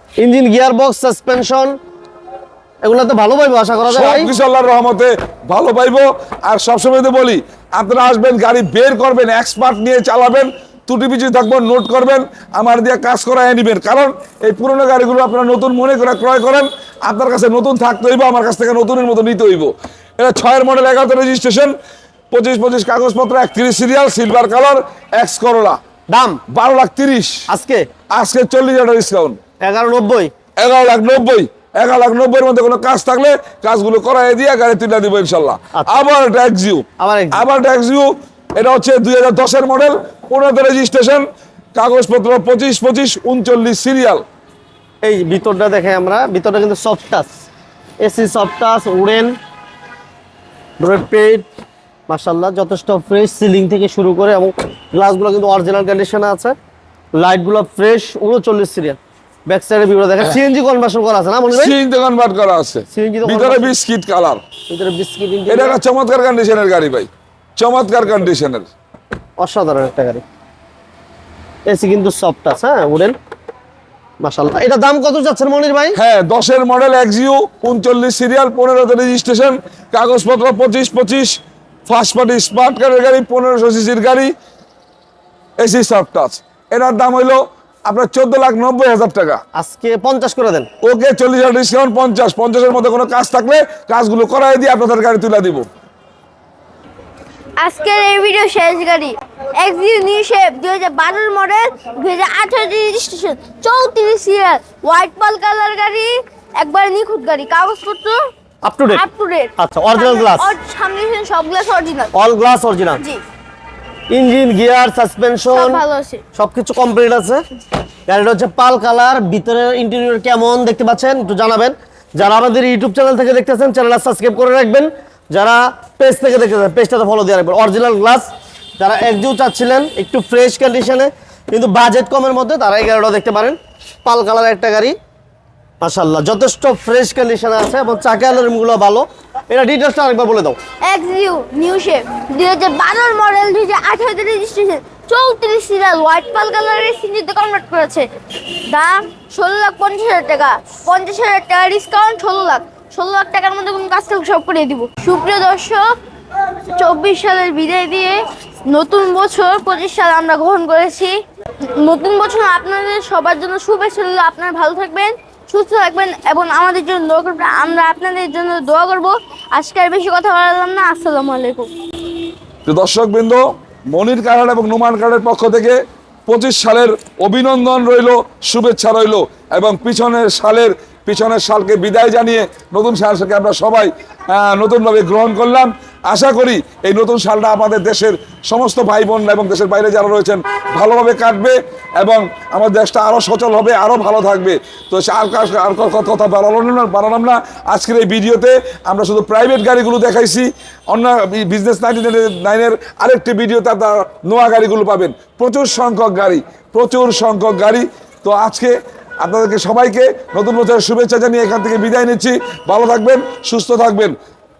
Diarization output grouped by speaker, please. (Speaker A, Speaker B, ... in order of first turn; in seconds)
Speaker A: 0.2-1.7, 2.8-4.3, 26.1-26.4, 27.5-27.9, 29.6-30.3, 35.7-36.0, 37.0-37.4, 45.0-47.3, 48.0-49.4, 50.8-51.5, 52.1-56.6, 57.1-61.8, 62.9-63.7, 64.7-65.8, 69.4-70.2, 71.7-73.2, 74.2-76.0, 89.5-90.7, 108.6-109.0, 109.6-110.5, 112.1-113.0, 114.1-115.8, 116.3-117.4, 118.1-134.9, 135.8-140.6
Speaker B: 3.9-21.7, 22.3-25.8, 26.5-27.4, 28.1-29.4, 30.6-44.2, 61.5-64.4, 65.5-68.7, 76.0-84.3, 85.6-89.4, 90.8-95.7, 172.7-214.1
Speaker C: 97.6-108.2, 108.9-112.1, 115.5-116.2, 140.8-148.1, 148.7-155.9, 156.7-161.2, 161.7-171.7